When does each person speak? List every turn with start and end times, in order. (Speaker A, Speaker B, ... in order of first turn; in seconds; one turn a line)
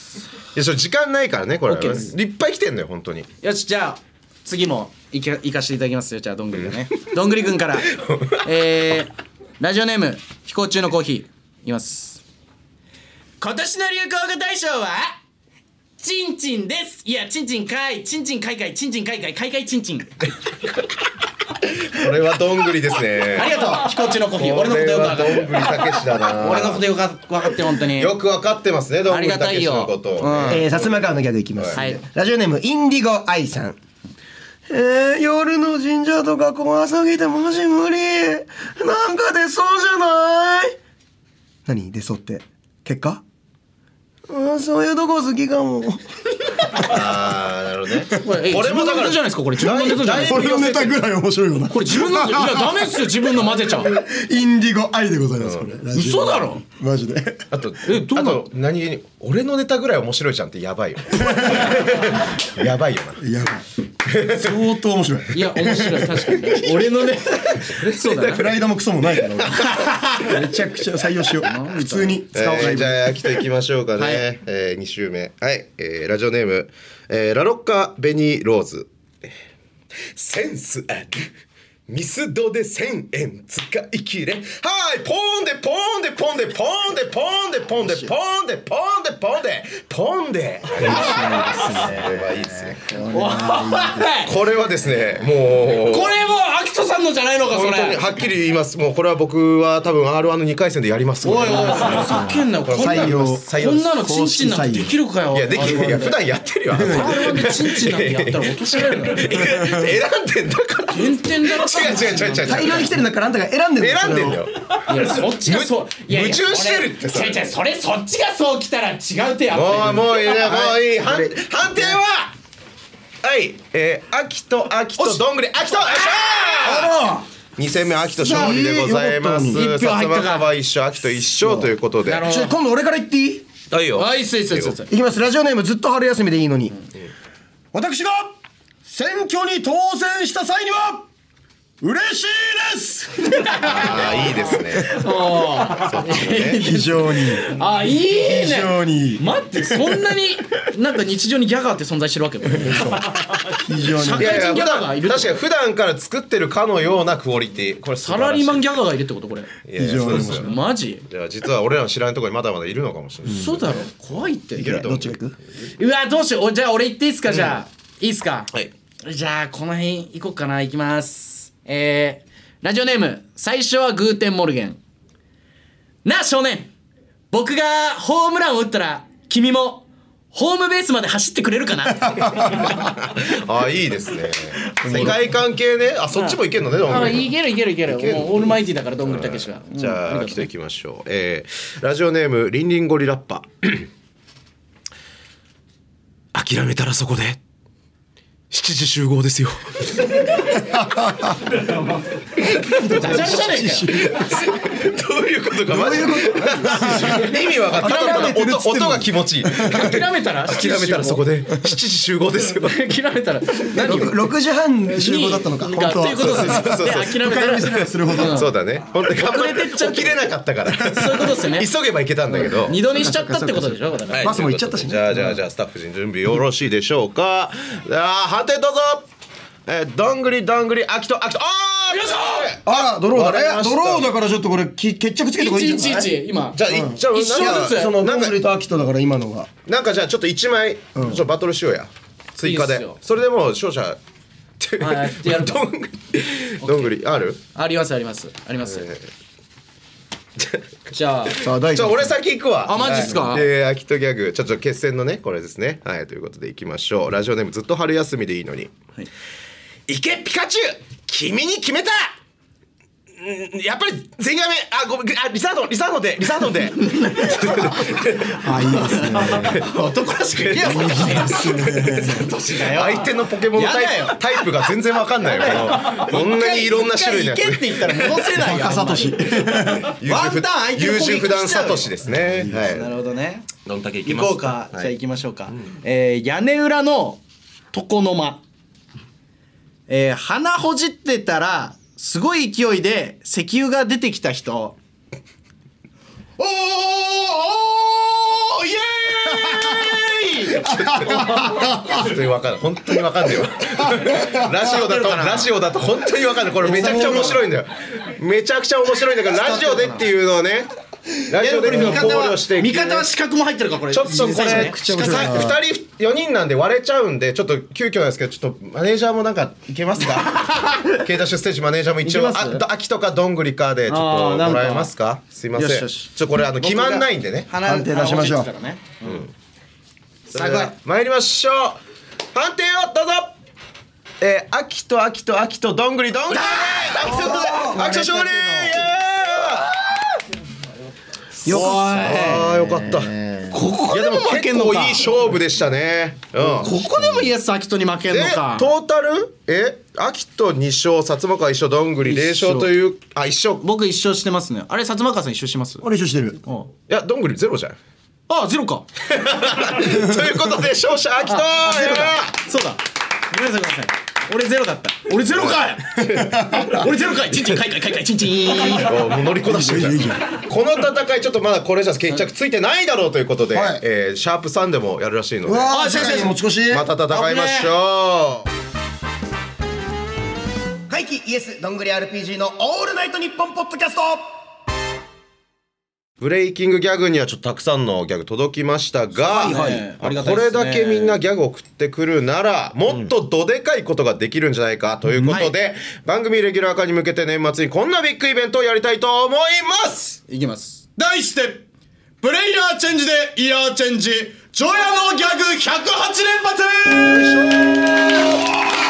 Speaker A: 0.5-3.3
Speaker B: 1.7-2.1
Speaker B: 3.4-12.2
Speaker A: 7.9-8.4
Speaker B: 13.4-15.1
Speaker B: 16.0-20.1
Speaker A: 21.6-26.9
Speaker B: 23.3-28.1
Speaker A: 27.9-31.0
Speaker B: 29.1-30.6
Speaker C: 30.5-33.8
Speaker B: 31.7-32.0
Speaker C: 34.7-40.8
Speaker C: 41.6-43.2
Speaker C: 44.3-47.0
Speaker A: 46.8-51.0
Speaker B: 48.1-50.5
Speaker C: 50.2-53.0
Speaker B: 51.7-53.9
Speaker C: 53.7-57.5
Speaker B: 55.9-56.6
Speaker A: 57.5-63.2
Speaker B: 57.8-58.4
Speaker C: 61.1-62.0
Speaker C: 63.2-63.6
Speaker A: 64.1-64.5
Speaker C: 64.2-66.7
Speaker B: 65.3-68.5
Speaker A: 67.6-68.5
Speaker C: 68.2-73.0
Speaker A: 69.3-69.8
Speaker B: 69.5-70.4
Speaker B: 71.4-72.8
Speaker A: 72.3-79.3
Speaker B: 74.0-74.2
Speaker A: 80.1-81.3
Speaker A: 81.9-92.9
Speaker C: 87.8-88.1
Speaker C: 90.8-94.2
Speaker B: 90.9-91.8
Speaker B: 93.0-94.3
Speaker A: 94.2-96.2
Speaker B: 95.6-98.1
Speaker A: 97.5-103.9
Speaker B: 101.2-106.2
Speaker C: 102.0-104.9
Speaker A: 105.3-112.9
Speaker C: 106.7-107.2
Speaker B: 106.7-109.8
Speaker C: 109.5-109.9
Speaker B: 110.9-112.9
Speaker C: 112.5-114.4
Speaker A: 113.8-117.4
Speaker B: 114.8-120.2
Speaker A: 119.5-122.3
Speaker C: 120.3-122.0
Speaker A: 123.2-126.9
Speaker B: 125.9-126.8
Speaker C: 126.6-127.2
Speaker A: 127.5-132.3
Speaker C: 128.1-129.7
Speaker B: 129.5-130.5
Speaker B: 132.1-132.5
Speaker C: 132.2-133.4
Speaker A: 133.7-134.8
Speaker B: 133.9-134.9
Speaker C: 134.9-136.8
Speaker C: 137.7-138.3
Speaker C: 138.8-141.1
Speaker C: 141.8-144.3
Speaker B: 143.3-155.4
Speaker A: 143.6-145.1
Speaker A: 145.7-146.6
Speaker C: 146.6-147.5
Speaker C: 148.1-150.0
Speaker C: 152.5-154.5
Speaker A: 154.2-158.6
Speaker B: 158.0-161.0
Speaker A: 159.6-160.5
Speaker C: 159.8-160.5
Speaker A: 161.1-163.9
Speaker B: 163.3-164.8
Speaker C: 163.3-163.5
Speaker A: 164.5-165.1
Speaker C: 164.6-165.3
Speaker B: 165.8-174.8
Speaker A: 167.3-167.6
Speaker B: 176.0-176.7
Speaker B: 177.3-182.9
Speaker A: 182.4-187.3
Speaker B: 184.8-185.2
Speaker B: 186.8-190.5
Speaker A: 187.9-193.9
Speaker A: 196.3-197.4
Speaker A: 198.5-200.6
Speaker C: 200.5-201.6
Speaker A: 202.4-212.8
Speaker C: 202.7-204.5
Speaker B: 202.8-204.1
Speaker C: 205.7-209.9
Speaker B: 206.9-207.3
Speaker B: 209.6-211.2
Speaker B: 212.6-214.2
Speaker C: 213.7-218.4
Speaker B: 214.9-221.7
Speaker A: 216.1-217.2
Speaker A: 218.1-222.8
Speaker C: 221.0-221.2
Speaker B: 222.3-224.4
Speaker C: 223.0-225.3
Speaker A: 224.1-229.1
Speaker A: 229.7-234.1
Speaker B: 231.9-232.5
Speaker C: 232.6-236.1
Speaker B: 235.4-237.9
Speaker A: 236.5-238.4
Speaker C: 236.7-239.5
Speaker A: 239.7-244.0
Speaker C: 240.9-241.2
Speaker B: 242.4-242.9
Speaker A: 244.6-247.4
Speaker B: 244.8-245.7
Speaker B: 246.6-246.9
Speaker B: 247.5-248.9
Speaker A: 248.6-249.1
Speaker A: 250.4-251.0
Speaker B: 250.9-251.4
Speaker C: 251.4-252.2
Speaker A: 251.7-258.7
Speaker B: 252.7-253.4
Speaker C: 252.8-253.3
Speaker A: 259.9-262.1
Speaker A: 263.2-269.7
Speaker B: 266.5-268.0
Speaker C: 268.4-269.6
Speaker B: 268.7-274.4
Speaker A: 270.4-271.3
Speaker C: 270.5-272.3
Speaker A: 272.6-278.3
Speaker B: 275.2-281.9
Speaker C: 278.3-279.9
Speaker A: 279.6-282.9
Speaker B: 282.5-283.5
Speaker A: 283.6-284.9
Speaker B: 284.0-288.4
Speaker B: 289.9-294.8
Speaker B: 296.4-300.6
Speaker C: 299.3-302.1
Speaker A: 300.5-310.7
Speaker C: 303.8-304.5
Speaker B: 304.7-305.5
Speaker C: 306.6-307.4
Speaker B: 306.8-307.2
Speaker B: 309.3-310.0
Speaker A: 311.3-313.1
Speaker B: 311.4-315.5
Speaker C: 311.5-312.2
Speaker A: 313.9-327.5
Speaker C: 314.1-315.6
Speaker B: 320.1-320.9
Speaker B: 322.0-322.6
Speaker B: 323.9-324.9
Speaker B: 325.6-329.2
Speaker C: 327.6-328.5
Speaker A: 329.0-329.3
Speaker A: 330.3-331.8
Speaker B: 330.3-330.7
Speaker A: 332.3-333.4
Speaker A: 334.2-339.7
Speaker B: 336.3-337.0
Speaker C: 336.9-338.9
Speaker B: 341.4-342.5
Speaker C: 341.4-343.5
Speaker A: 341.5-343.1
Speaker B: 343.5-345.3
Speaker A: 343.9-346.7
Speaker B: 346.4-348.7
Speaker A: 348.1-353.6
Speaker B: 352.1-352.7
Speaker B: 353.6-355.8
Speaker C: 355.8-356.4
Speaker A: 356.9-357.8
Speaker B: 358.3-358.9
Speaker A: 359.1-362.4
Speaker B: 361.2-369.1
Speaker A: 365.2-366.8
Speaker C: 366.1-366.9
Speaker A: 368.7-375.7
Speaker C: 369.4-370.2
Speaker C: 373.5-373.8
Speaker C: 375.4-376.9
Speaker B: 375.7-376.4
Speaker A: 376.7-378.4
Speaker B: 377.1-377.7
Speaker C: 380.9-384.3
Speaker A: 386.2-400.2
Speaker B: 389.2-391.2
Speaker C: 389.3-389.9
Speaker B: 395.2-395.5
Speaker B: 400.3-401.6
Speaker B: 402.2-407.4
Speaker A: 407.0-407.8
Speaker C: 407.9-408.4